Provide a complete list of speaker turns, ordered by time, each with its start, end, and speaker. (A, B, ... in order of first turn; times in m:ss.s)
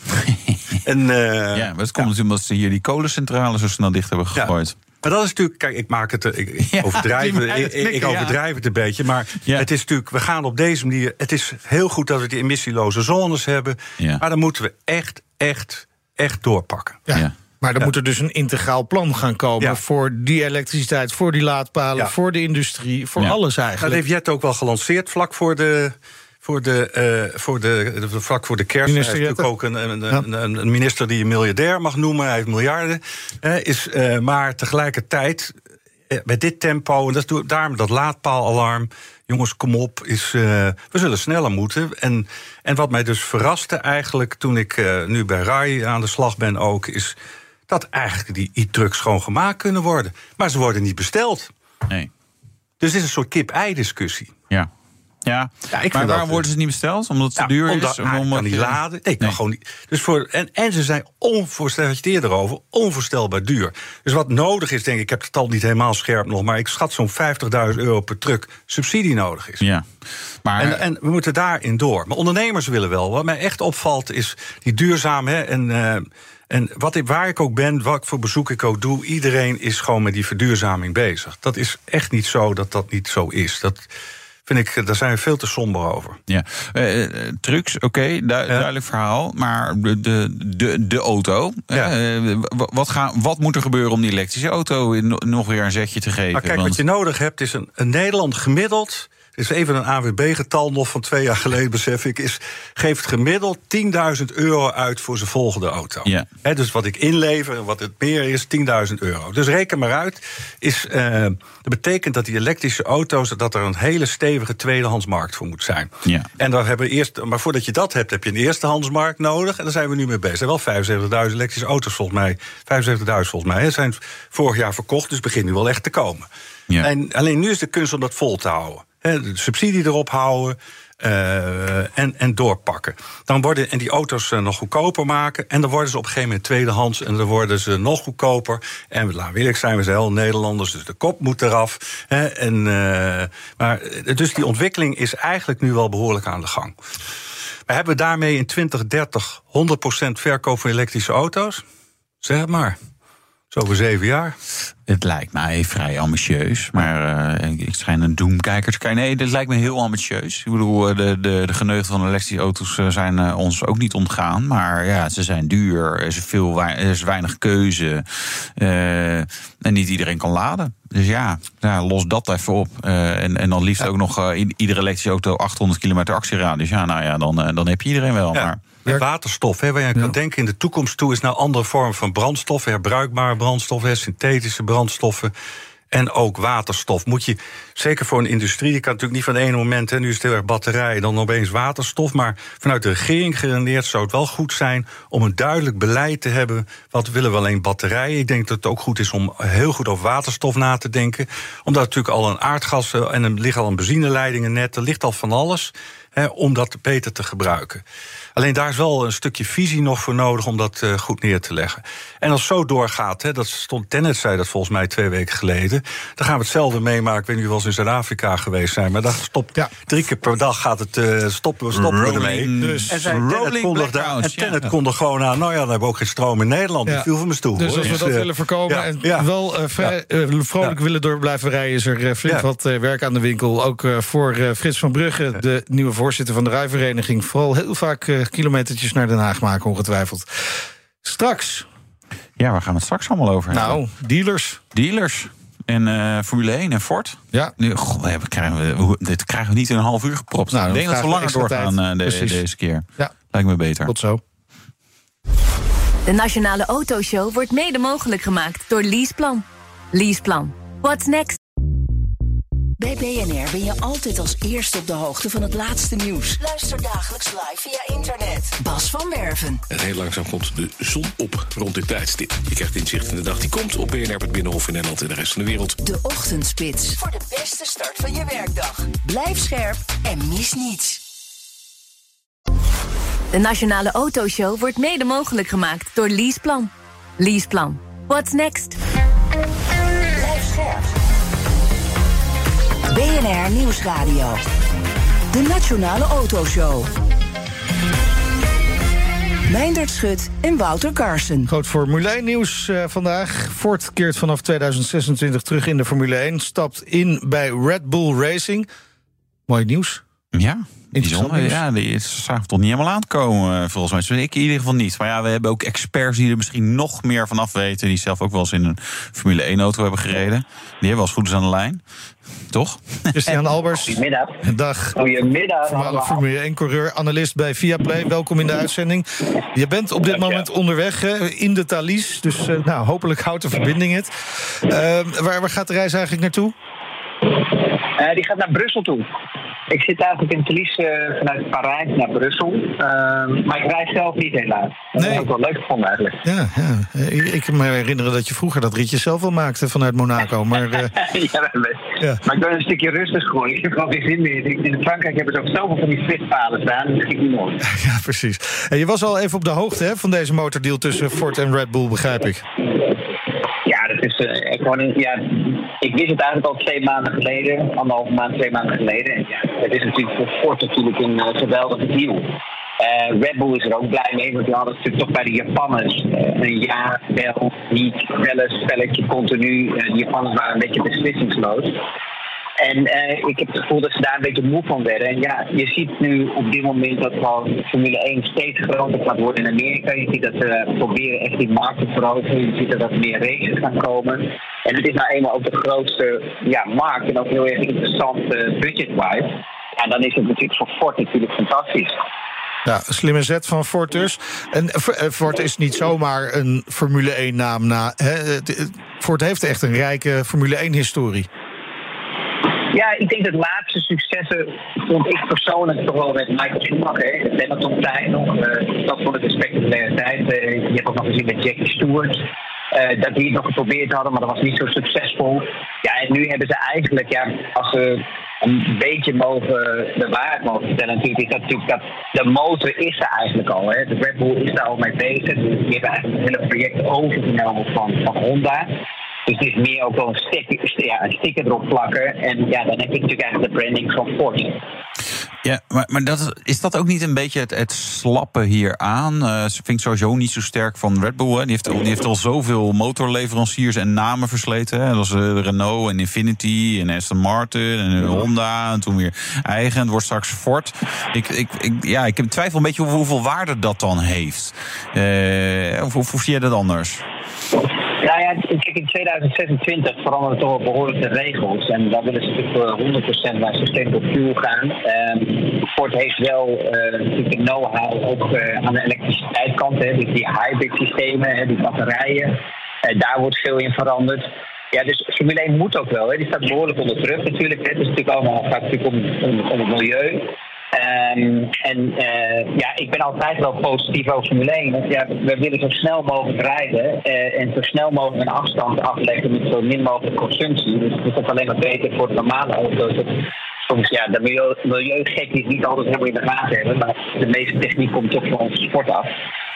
0:00.3-0:00.8 A
0:00.8-0:02.1 B
0:01.5-0:04.8 A
0:04.4-0:17.0 B
0:06.7-0:08.4 A
0:17.1-0:24.0 C
0:23.8-0:35.6 B
0:28.9-0:29.5 C
0:36.1-0:47.2 B
0:47.7-0:51.5 B
0:52.8-0:54.4 B
0:55.3-0:59.4 A
0:55.7-0:56.4 B
0:57.4-1:09.6 B
1:09.6-1:09.9 A
1:10.4-1:10.8 A
1:10.6-1:23.9 B
1:24.5-1:26.2 B
1:26.3-1:36.8 A
1:36.3-2:06.3 B
2:06.8-2:26.7 B
2:27.7-2:31.6 B
2:32.2-2:32.8 B
2:33.5-2:34.4 B
2:34.9-2:58.6 A
2:58.3-3:05.3 B
3:05.9-3:27.8 B
3:28.4-3:49.3 B
3:41.7-3:44.5 A
3:42.6-3:43.0 C
3:46.9-4:01.7 C
4:02.4-4:03.8 A
4:03.5-4:04.6 C
4:04.7-4:13.9 A
4:10.5-4:12.4 C
4:13.8-4:14.2 C
4:16.1-4:21.4 D
4:22.8-4:29.6 E
4:29.7-4:35.8 F
4:35.8-4:41.0 E
4:43.3-4:48.8 D
4:50.2-4:50.9 E
4:52.9-4:54.4 E
4:55.3-4:56.9 E
4:59.5-5:01.5 E
5:01.5-5:08.7 C
5:09.5-5:10.0 C
5:10.3-5:21.8 A
5:11.0-5:11.6 C
5:22.5-5:23.4 A
5:23.1-5:25.0 C
5:23.8-5:24.4 G
5:25.0-5:26.2 G
5:25.7-5:36.6 C
5:30.1-5:30.5 G
5:38.0-5:39.1 G
5:39.7-5:46.2 G
5:45.0-5:45.3 C
5:46.2-5:50.9 C
5:50.6-5:57.6 G
5:57.6-6:02.4 C
6:03.6-6:21.8 G
6:22.6-6:42.0 G
6:42.6-6:51.3 C
6:52.7-7:24.6 G
7:25.4-7:47.0 A
7:47.9-8:29.1 G